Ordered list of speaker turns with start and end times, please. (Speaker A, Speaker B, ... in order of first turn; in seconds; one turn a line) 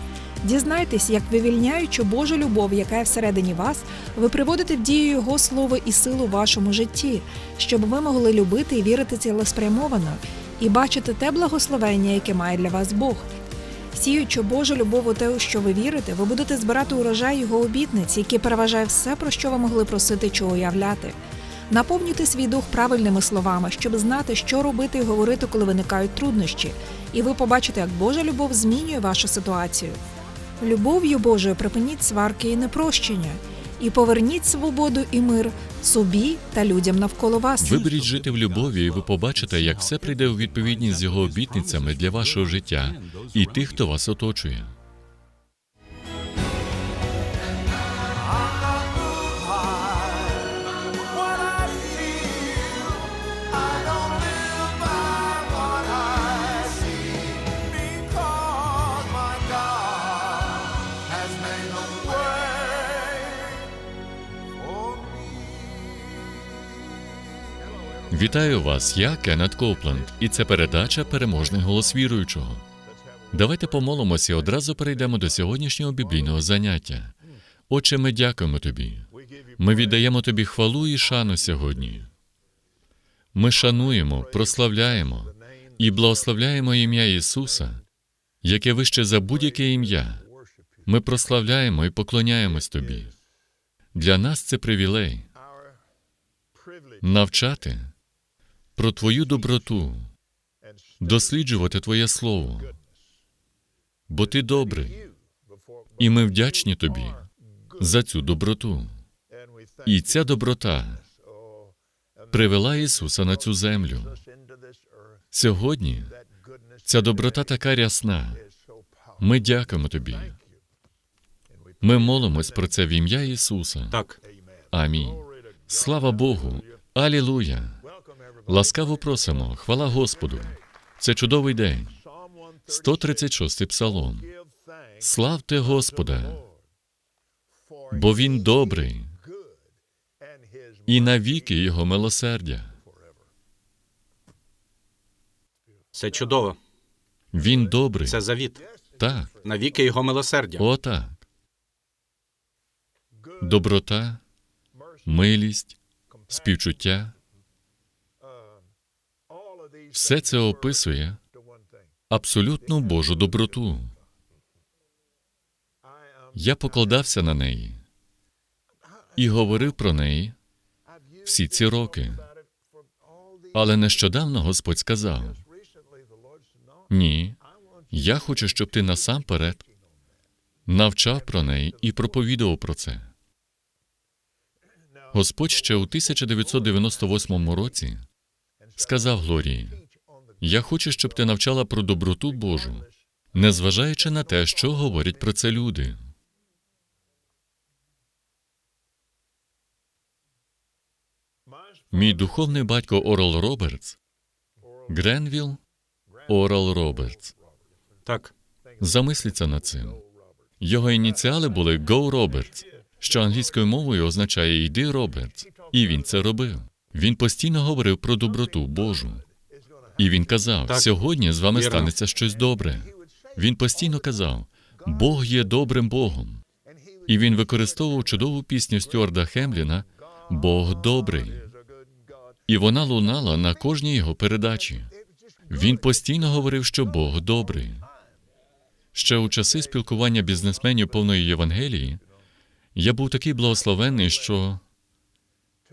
Speaker A: 0.4-13.3
Speaker A: 13.9-21.2
Speaker A: 21.7-30.0
Speaker A: 30.6-37.9
Speaker B: 37.6-44.8
Speaker B: 68.1-72.6
Speaker B: 73.3-77.1
Speaker B: 77.7-82.1
Speaker B: 83.3-87.8
Speaker B: 88.4-90.2
Speaker B: 90.9-93.1
Speaker B: 93.9-95.3
Speaker B: 97.0-97.9
Speaker B: 98.8-100.1
Speaker B: 101.0-102.8
Speaker B: 104.1-105.1
Speaker B: 106.0-107.2
Speaker B: 107.8-109.0
Speaker B: 109.8-111.0
Speaker B: 112.3-114.2
Speaker B: 115.3-116.2
Speaker B: 116.8-118.4
Speaker B: 119.2-120.4
Speaker B: 121.8-124.0
Speaker C: 123.9-124.2
Speaker B: 124.7-127.8
Speaker B: 128.5-132.0
Speaker B: 132.7-134.3
Speaker B: 135.0-136.4
Speaker B: 137.9-139.1
Speaker B: 140.9-142.8
Speaker C: 145.9-146.6
Speaker B: 147.3-148.2
Speaker C: 148.1-148.6
Speaker B: 149.0-149.3
Speaker C: 149.4-150.7
Speaker B: 150.6-151.2
Speaker B: 153.4-154.2
Speaker B: 155.1-155.8
Speaker B: 156.3-157.1
Speaker B: 159.9-161.2
Speaker B: 162.1-163.9
Speaker B: 166.3-167.8
Speaker B: 169.2-170.4
Speaker B: 171.2-172.3
Speaker B: 173.5-175.4
Speaker B: 176.9-177.4
Speaker B: 177.9-179.7
Speaker B: 180.7-183.1
Speaker B: 185.1-188.1
Speaker B: 188.8-189.8
Speaker B: 190.4-196.0
Speaker B: 201.9-204.0
Speaker B: 204.9-205.6
Speaker B: 206.3-207.3
Speaker C: 208.1-208.3
Speaker B: 208.8-210.0
Speaker B: 210.6-219.2
Speaker B: 220.0-226.4
Speaker C: 220.7-221.0
Speaker C: 221.5-221.9
Speaker B: 227.1-231.5
Speaker B: 232.5-234.9
Speaker B: 235.5-237.9
Speaker B: 238.9-242.0
Speaker B: 242.8-244.6